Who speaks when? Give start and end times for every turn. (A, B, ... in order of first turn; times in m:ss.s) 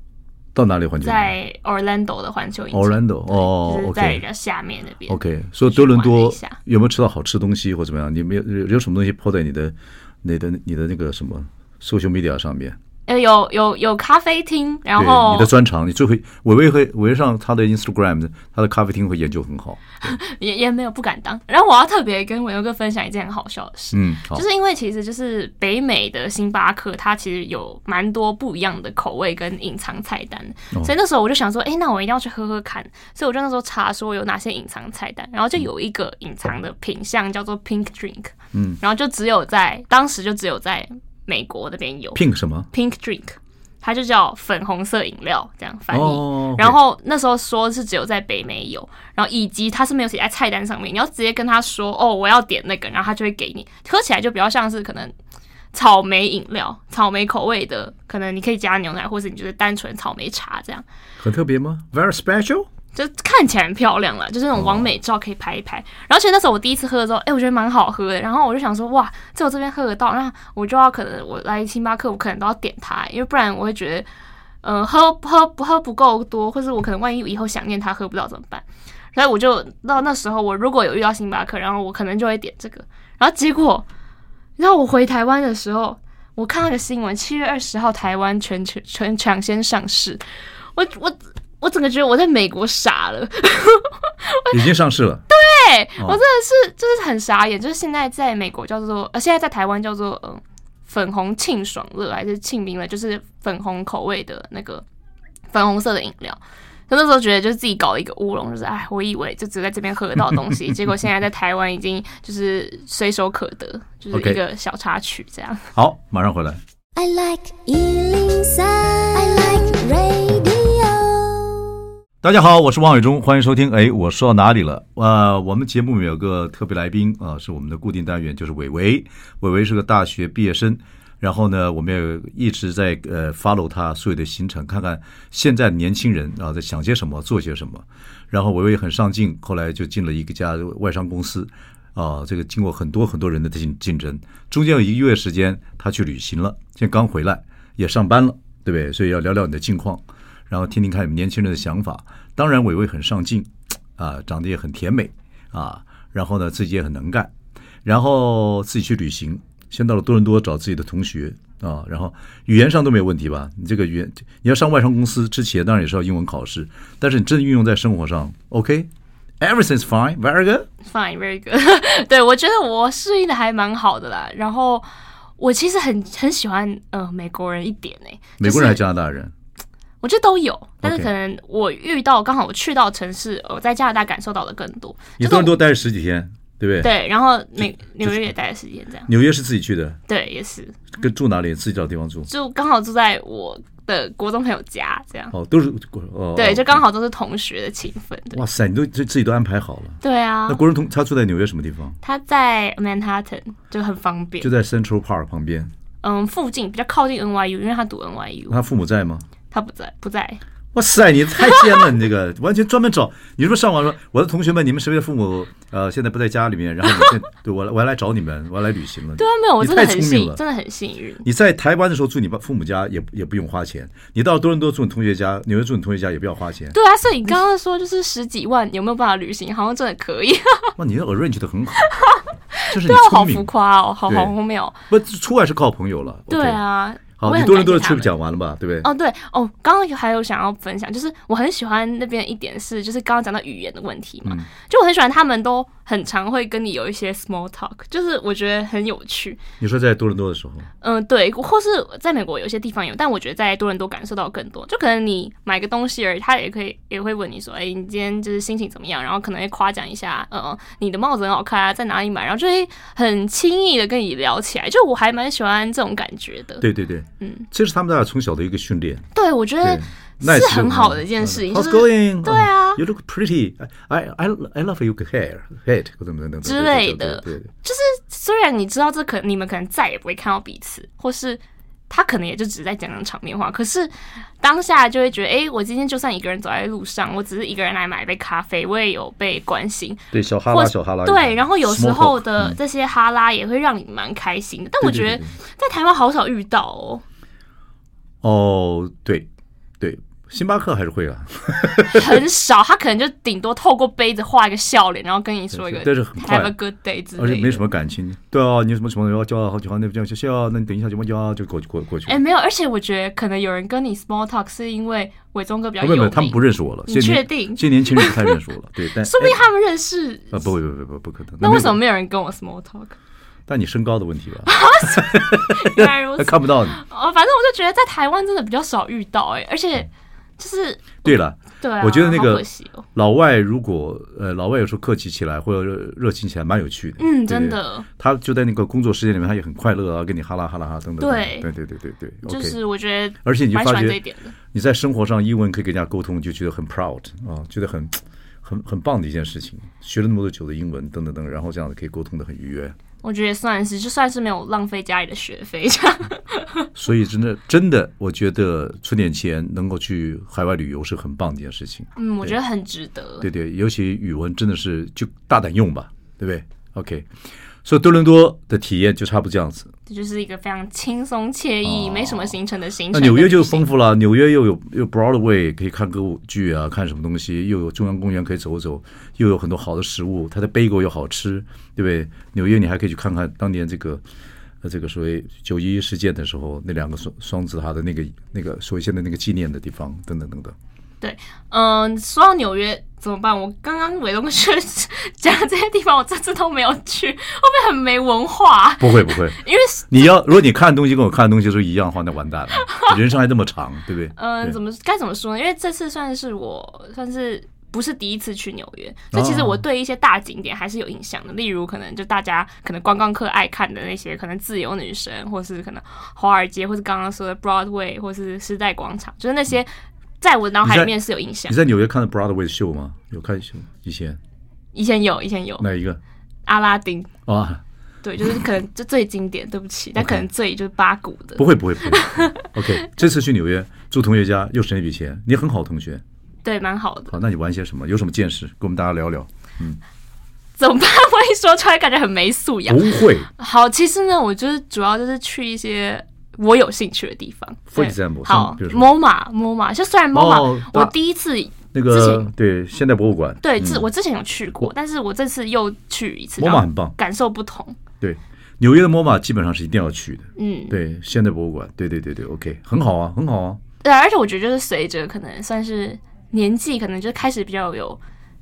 0:00.6-0:01.3 A
0:01.0-0:06.6 B
0:02.7-0:04.2 A
0:05.1-0:12.8 A
0:13.1-0:15.5 B
0:15.0-0:20.2 A
0:20.0-0:42.2 B
0:23.9-0:24.4 A
0:38.5-0:38.8 A
0:42.2-0:42.7 A
0:42.7-0:55.1 B
0:45.9-0:46.8 A
0:55.7-1:00.8 B
1:01.2-1:02.7 A
1:03.0-1:14.1 B
1:04.6-1:04.9 A
1:14.6-1:23.9 B
1:24.6-1:30.2 B
1:30.8-1:34.6 B
1:34.5-1:35.3 A
1:35.3-1:44.8 B
1:45.5-1:55.7 B
1:54.1-1:54.4 A
1:55.7-1:56.6 A
1:57.0-2:01.7 C
2:02.2-2:37.3 A
2:37.8-2:48.9 A
2:49.4-2:50.7 A
2:50.8-2:54.8 B
2:55.4-2:58.8 B
2:58.4-2:59.3 A
3:00.0-3:05.5 B
3:00.8-3:01.1 A
3:05.2-3:06.9 A
3:06.8-3:09.1 B
3:07.6-3:08.3 A
3:09.1-3:10.0 A
3:10.1-3:10.8 B
3:10.9-3:12.3 A
3:12.3-3:15.3 B
3:15.3-3:16.8 A
3:16.4-3:18.4 B
3:18.3-3:22.0 A
3:20.0-3:20.6 B
3:22.0-3:24.5 B
3:24.4-3:25.7 A
3:26.0-3:28.6 B
3:28.5-3:29.2 A
3:29.5-3:30.4 B
3:30.7-3:40.4 A
3:39.2-3:41.2 B
3:41.2-3:46.8 A
3:46.7-3:50.7 B
3:50.8-3:51.9 A
3:51.9-3:54.8 B
3:52.7-3:53.5 A
3:54.1-3:54.3 A
3:54.9-3:56.6 A
3:56.3-3:58.1 B
3:57.2-3:58.9 A
3:58.8-4:09.4 B
4:09.6-4:10.7 A
4:10.8-4:26.6 B
4:26.6-4:29.1 A
4:27.2-4:27.5 B
4:29.2-4:32.8 B
4:29.6-4:37.5 A
4:36.4-4:57.0 B
4:50.1-4:52.6 A
4:54.8-4:55.4 A
4:58.2-4:59.3 A
4:59.8-5:02.2 A
5:01.9-5:07.7 B
5:05.5-5:06.5 A
5:07.2-5:12.2 A
5:12.1-5:18.4 B
5:15.8-5:19.4 A
5:19.0-5:20.5 B
5:20.3-5:21.8 A
5:21.4-5:23.0 B
5:23.5-5:26.8 A
5:24.5-5:32.9 B
5:31.0-5:32.4 A
5:33.0-5:42.6 A
5:37.0-5:37.9 B
5:41.0-5:41.5 B
5:42.2-5:44.3 B
5:43.2-5:44.0 A
5:44.5-5:52.8 A
5:53.0-5:56.7 B
5:56.8-6:02.4 A
6:02.0-6:03.3 B
6:03.2-6:07.1 A
6:07.6-6:09.7 A
6:09.9-6:13.7 B
6:11.6-6:12.4 A
6:12.9-6:24.0 A
6:24.6-6:30.6 A
6:31.0-6:40.0 B
6:38.8-6:44.6 A
6:42.6-6:42.9 B
6:44.2-6:59.7 B
6:49.1-6:49.6 A
7:00.2-7:01.6 B
7:00.6-7:01.0 A
7:01.5-7:04.2 A
7:04.8-7:05.7 B
7:05.6-7:06.0 A
7:06.5-7:07.1 B
7:07.3-7:07.6 A
7:08.0-7:12.9 B
7:10.0-7:10.3 A
7:11.4-7:16.0 A
7:16.4-7:17.1 B
7:17.1-7:19.8 A
7:20.6-7:32.3 B
7:22.7-7:23.3 A
7:27.7-7:28.9 A
7:30.1-7:30.9 A
7:31.7-7:33.9 A
7:33.4-7:37.8 B
7:36.4-7:37.0 A
7:38.0-7:43.6 A
7:40.4-7:40.8 B
7:43.8-7:48.0 B